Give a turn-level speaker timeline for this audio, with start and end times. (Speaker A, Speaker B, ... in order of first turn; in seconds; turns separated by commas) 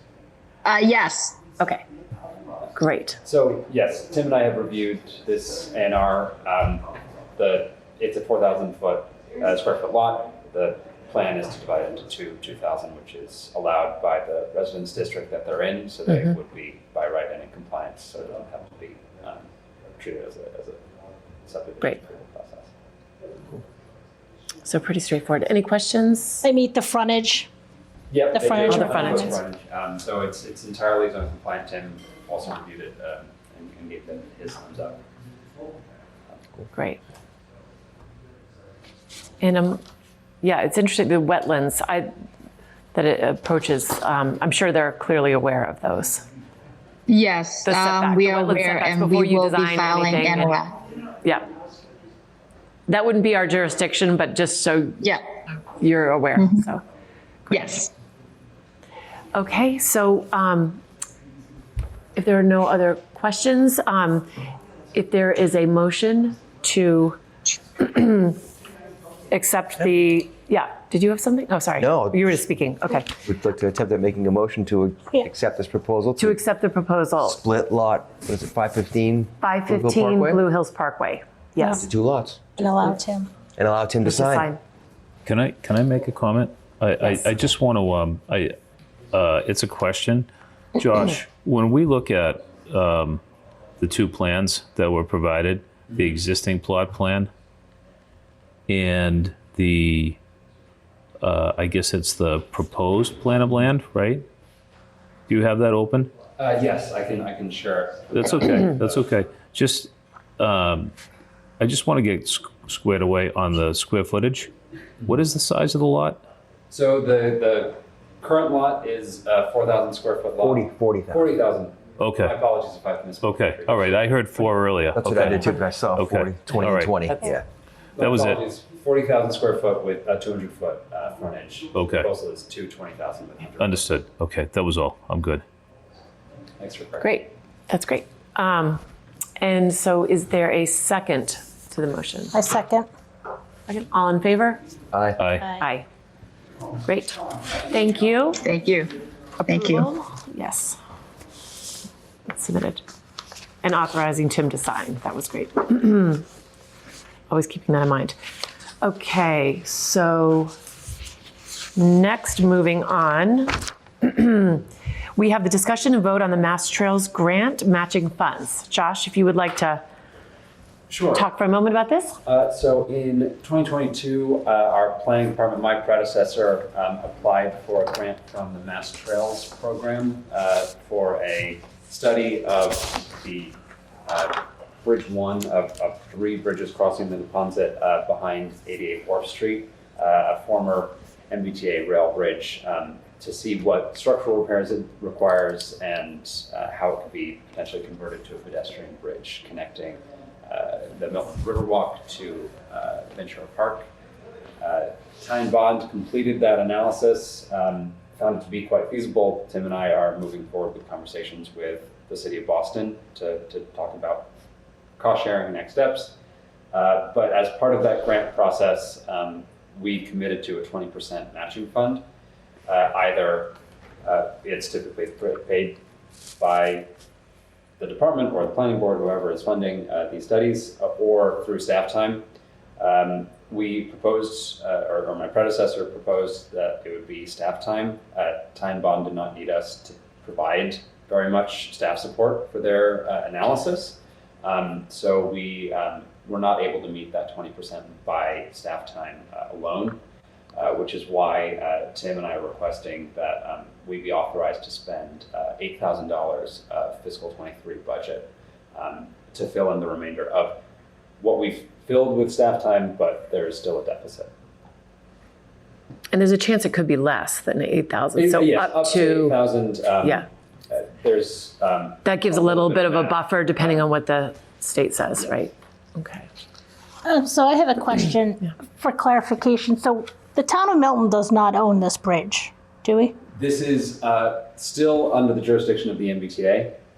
Speaker A: 0.6-1.4, Speaker B: 2.8-3.2, Speaker C: 3.2-20.8, Speaker C: 21.4-22.7, Speaker B: 24.6-26.5, Speaker D: 26.4-27.5, Speaker C: 28.1-35.0, Speaker D: 28.3-29.4, Speaker B: 28.6-29.3, Speaker B: 36.7-37.0, Speaker B: 39.4-39.8, Speaker B: 40.4-42.1, Speaker B: 42.9-46.2, Speaker A: 47.1-50.8, Speaker B: 47.6-50.6, Speaker B: 52.9-55.0, Speaker B: 55.7-56.8, Speaker A: 56.3-56.6, Speaker B: 57.5-57.8, Speaker A: 57.5-57.9, Speaker B: 59.3-60.8, Speaker B: 62.1-64.3, Speaker B: 64.9-67.2, Speaker B: 67.8-68.4, Speaker B: 69.3-73.1, Speaker E: 71.8-72.3, Speaker E: 73.2-76.4, Speaker B: 76.2-77.4, Speaker E: 77.2-80.4, Speaker B: 79.4-81.8, Speaker D: 81.6-81.8, Speaker E: 81.7-82.4, Speaker D: 82.6-83.3, Speaker E: 83.5-84.5, Speaker B: 84.0-84.6, Speaker F: 85.2-88.5, Speaker F: 89.1-93.2, Speaker F: 93.8-97.3, Speaker F: 98.7-100.2, Speaker F: 101.2-104.2, Speaker F: 105.3-106.1, Speaker C: 106.4-109.0, Speaker F: 108.1-110.9, Speaker F: 111.6-114.5, Speaker F: 115.0-116.2, Speaker C: 116.7-124.5, Speaker E: 120.4-121.2, Speaker F: 122.0-122.3, Speaker F: 123.2-127.0, Speaker E: 124.9-127.4, Speaker B: 126.6-127.1, Speaker C: 128.0-133.8, Speaker F: 128.0-128.4, Speaker F: 131.7-132.1, Speaker F: 133.6-135.4, Speaker C: 136.6-137.1, Speaker B: 137.0-138.8, Speaker B: 139.4-142.4, Speaker D: 142.3-142.9, Speaker B: 143.7-144.6, Speaker E: 144.9-145.2, Speaker F: 145.2-145.5, Speaker B: 145.5-145.9, Speaker B: 146.8-148.4, Speaker A: 148.4-148.9, Speaker A: 149.4-149.9, Speaker B: 149.4-150.8, Speaker B: 152.3-152.8, Speaker B: 153.6-156.2, Speaker B: 157.3-158.2, Speaker B: 158.8-160.5, Speaker B: 161.7-169.8, Speaker C: 170.9-171.3, Speaker B: 171.1-172.2, Speaker C: 172.2-203.8, Speaker C: 204.6-214.3, Speaker C: 215.0-216.1, Speaker C: 216.7-222.0, Speaker C: 222.7-225.8, Speaker C: 226.4-226.9, Speaker C: 227.8-232.2, Speaker C: 232.8-250.0, Speaker C: 250.5-260.6, Speaker C: 261.2-264.3, Speaker B: 266.1-269.4, Speaker C: 268.1-273.8, Speaker B: 272.0-276.3, Speaker D: 277.0-283.1, Speaker C: 283.3-286.8